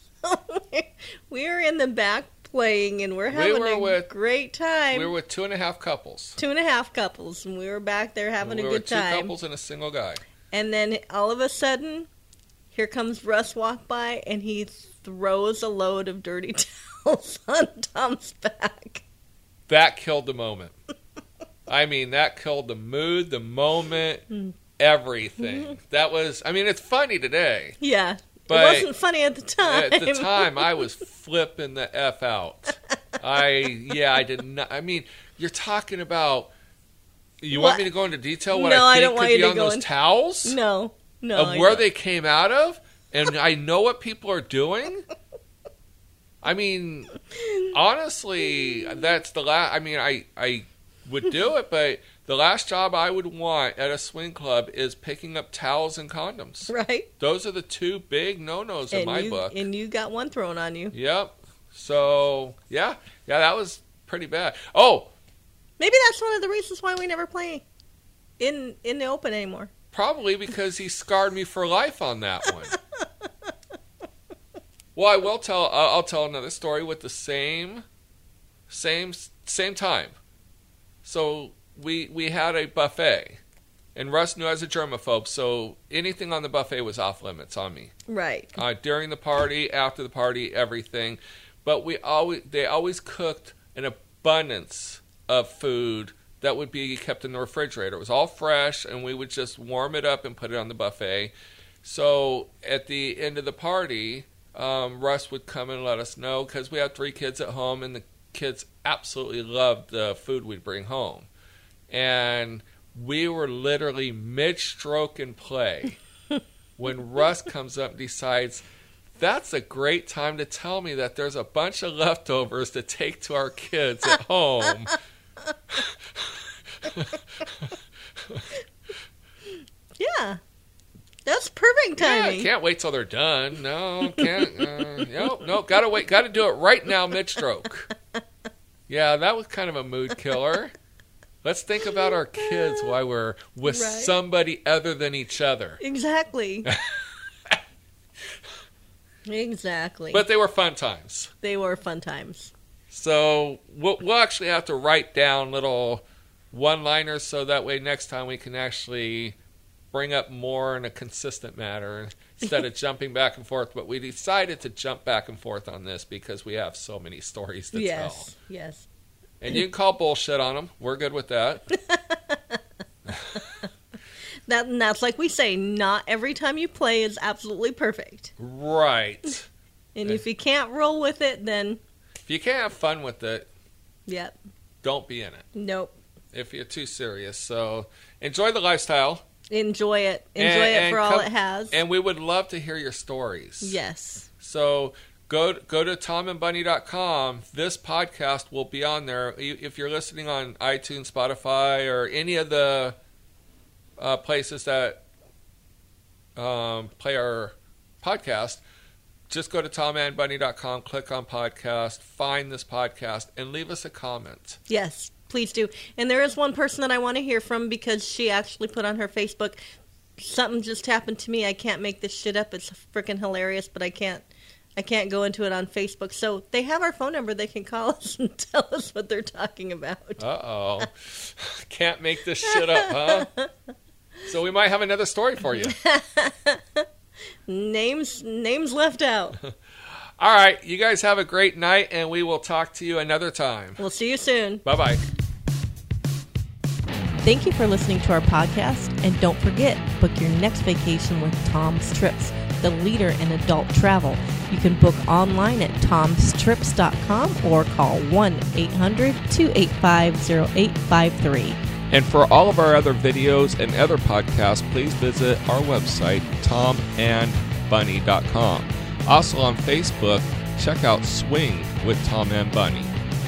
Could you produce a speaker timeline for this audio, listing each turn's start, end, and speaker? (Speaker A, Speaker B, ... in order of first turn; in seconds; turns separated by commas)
Speaker A: 0.2-5.1, Speaker B: 3.3-4.1, Speaker B: 4.9-6.4, Speaker A: 6.4-9.3, Speaker B: 8.4-10.2, Speaker A: 10.5-12.1, Speaker A: 12.7-19.0, Speaker B: 19.7-20.7, Speaker B: 21.7-24.2, Speaker B: 24.8-27.8, Speaker A: 27.8-30.9, Speaker B: 28.5-28.9, Speaker B: 29.6-36.5, Speaker B: 37.4-40.6, Speaker A: 37.5-37.9, Speaker A: 38.5-39.9, Speaker A: 40.4-41.9, Speaker B: 41.3-45.1, Speaker B: 46.4-47.1, Speaker A: 47.4-47.7, Speaker B: 47.7-59.6, Speaker A: 56.7-57.1, Speaker A: 58.9-60.9, Speaker B: 60.9-65.1, Speaker A: 65.8-67.6, Speaker A: 68.4-69.7, Speaker B: 69.9-72.8, Speaker B: 74.9-77.8, Speaker B: 78.7-80.2, Speaker B: 81.0-83.4, Speaker B: 83.9-87.9, Speaker A: 88.1-88.6, Speaker B: 88.5-101.3, Speaker B: 101.8-111.3, Speaker B: 111.9-116.0, Speaker B: 116.8-118.6, Speaker B: 119.2-125.0, Speaker B: 125.7-128.4, Speaker A: 130.0-130.4, Speaker A: 131.2-132.5, Speaker B: 132.0-137.9, Speaker A: 134.2-134.9, Speaker B: 138.9-140.7, Speaker B: 141.4-145.8, Speaker A: 143.6-144.1, Speaker A: 145.8-146.7, Speaker B: 146.7-147.6, Speaker A: 149.3-150.2, Speaker B: 150.1-151.3, Speaker A: 151.4-152.5, Speaker B: 152.9-159.3, Speaker B: 159.9-168.3, Speaker A: 167.7-168.9, Speaker B: 169.4-171.7, Speaker A: 171.7-172.6, Speaker B: 173.1-173.5, Speaker A: 173.4-173.7, Speaker A: 174.5-178.3, Speaker B: 178.4-179.5, Speaker A: 179.9-181.8, Speaker B: 182.2-183.5, Speaker A: 184.1-184.3, Speaker B: 184.8-185.4, Speaker A: 185.5-185.9, Speaker B: 186.3-189.2, Speaker A: 189.5-191.8, Speaker B: 190.4-193.8, Speaker A: 193.6-194.3, Speaker B: 194.4-203.0, Speaker B: 204.0-205.0, Speaker B: 206.3-208.6, Speaker B: 209.3-214.6, Speaker A: 214.7-219.6, Speaker A: 220.2-230.2, Speaker B: 230.2-233.3, Speaker A: 232.5-233.5, Speaker B: 234.2-235.8, Speaker A: 235.6-236.9, Speaker A: 237.5-239.4, Speaker B: 240.2-243.8, Speaker A: 243.8-244.6, Speaker B: 244.6-245.0, Speaker A: 247.2-261.6, Speaker B: 261.9-272.9